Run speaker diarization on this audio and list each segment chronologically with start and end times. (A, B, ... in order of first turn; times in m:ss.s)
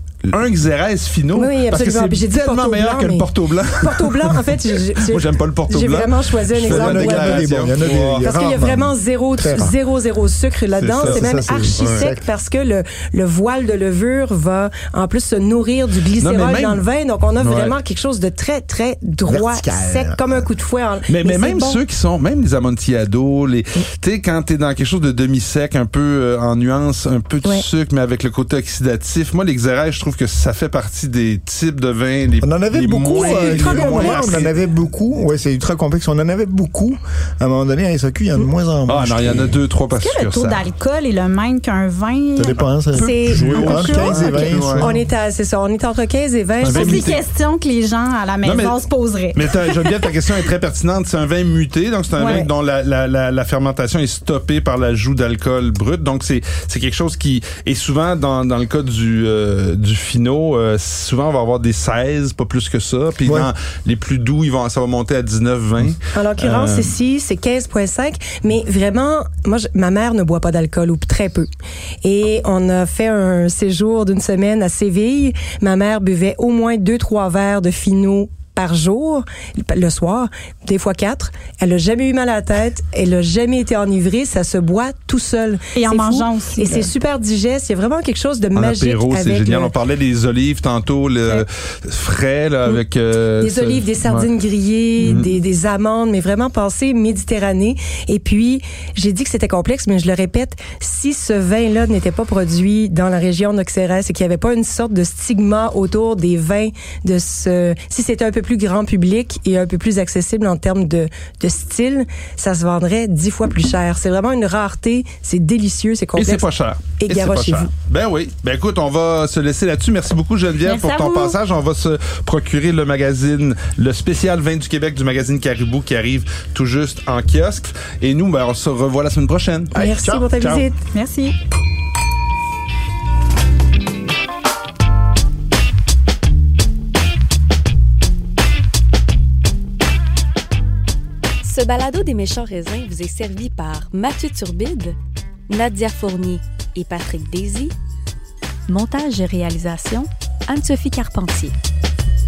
0:00.3-0:08.3 A
0:01.3-0:07.5 B
0:06.5-0:09.7 C
0:08.2-0:21.8 B
0:10.8-0:12.1 A
0:11.0-0:12.2 C
0:16.2-0:16.8 A
0:17.4-0:17.7 A
0:19.2-0:20.5 C
0:21.1-0:34.6 A
0:32.4-0:39.6 C
0:33.2-0:34.4 B
0:38.9-0:40.6 A
0:40.0-0:43.1 D
0:42.4-0:45.0 C
0:42.6-0:45.0 A
0:42.9-0:47.0 B
0:46.6-0:47.2 A
0:46.6-0:49.9 D
0:48.4-0:48.8 A
0:49.3-1:06.9 A
0:52.2-0:52.4 D
0:52.2-0:52.5 B
1:03.2-1:03.5 C
1:06.1-1:11.5 B
1:12.0-1:29.7 B
1:25.7-1:26.9 D
1:28.5-1:34.3 A
1:33.4-1:56.4 B
1:35.0-1:35.4 A
1:56.1-2:09.8 A
1:57.0-1:57.7 B
2:00.6-2:01.4 D
2:09.7-2:10.3 C
2:09.7-2:10.8 B
2:10.4-2:10.6 A
2:10.9-2:11.3 D
2:21.4-2:25.0 E
2:25.5-2:27.7 E
2:28.7-2:31.5 E